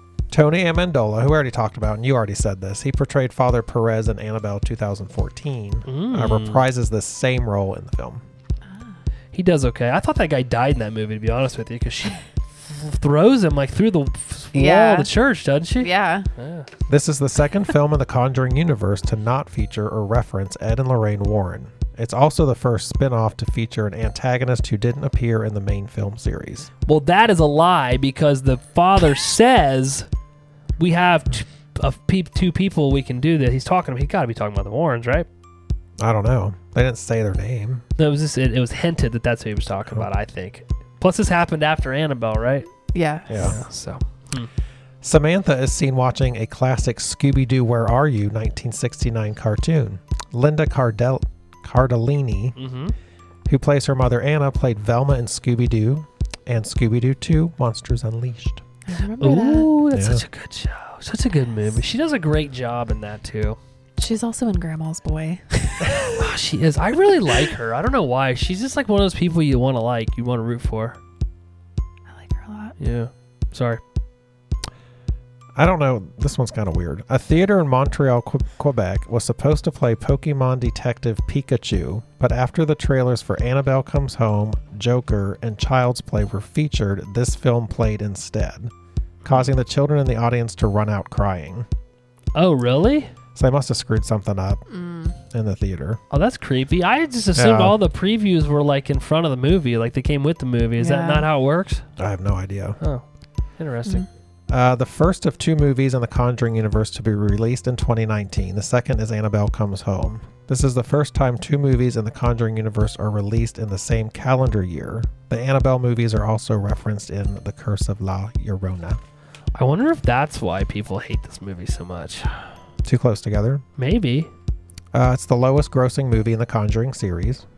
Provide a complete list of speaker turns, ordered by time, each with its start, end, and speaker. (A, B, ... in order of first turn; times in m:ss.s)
0:00.3-0:08.2 A
0:05.8-0:06.6 B
0:08.6-0:09.0 C
0:09.3-0:16.7 B
0:14.5-0:15.1 C
0:15.8-0:16.3 C
0:16.9-0:26.7 A
0:26.8-0:30.1 B
0:30.8-0:35.3 B
0:36.0-0:37.8 A
0:38.0-0:42.7 B
0:42.9-0:43.6 C
0:43.3-0:43.6 A
0:43.4-0:44.5 B
0:45.0-0:52.6 A
0:52.6-0:52.9 B
0:53.5-0:58.6 A
0:58.9-0:59.7 C
0:59.2-1:03.6 B
0:59.9-1:00.2 A
1:04.0-1:06.3 C
1:05.9-1:11.0 B
1:12.1-1:12.8 C
1:12.8-1:13.8 B
1:15.5-1:28.7 A
1:29.2-1:31.6 A
1:32.3-1:33.1 B
1:33.3-1:34.6 A
1:34.7-1:35.2 C
1:35.3-1:36.0 A
1:36.1-1:41.8 B
1:37.3-1:37.8 A
1:40.8-1:41.3 C
1:42.0-1:42.8 A
1:43.6-1:44.0 B
1:44.5-1:59.0 A
1:59.5-2:02.5 B
2:02.8-2:03.6 A
2:03.8-2:04.3 B
2:04.9-2:07.4 A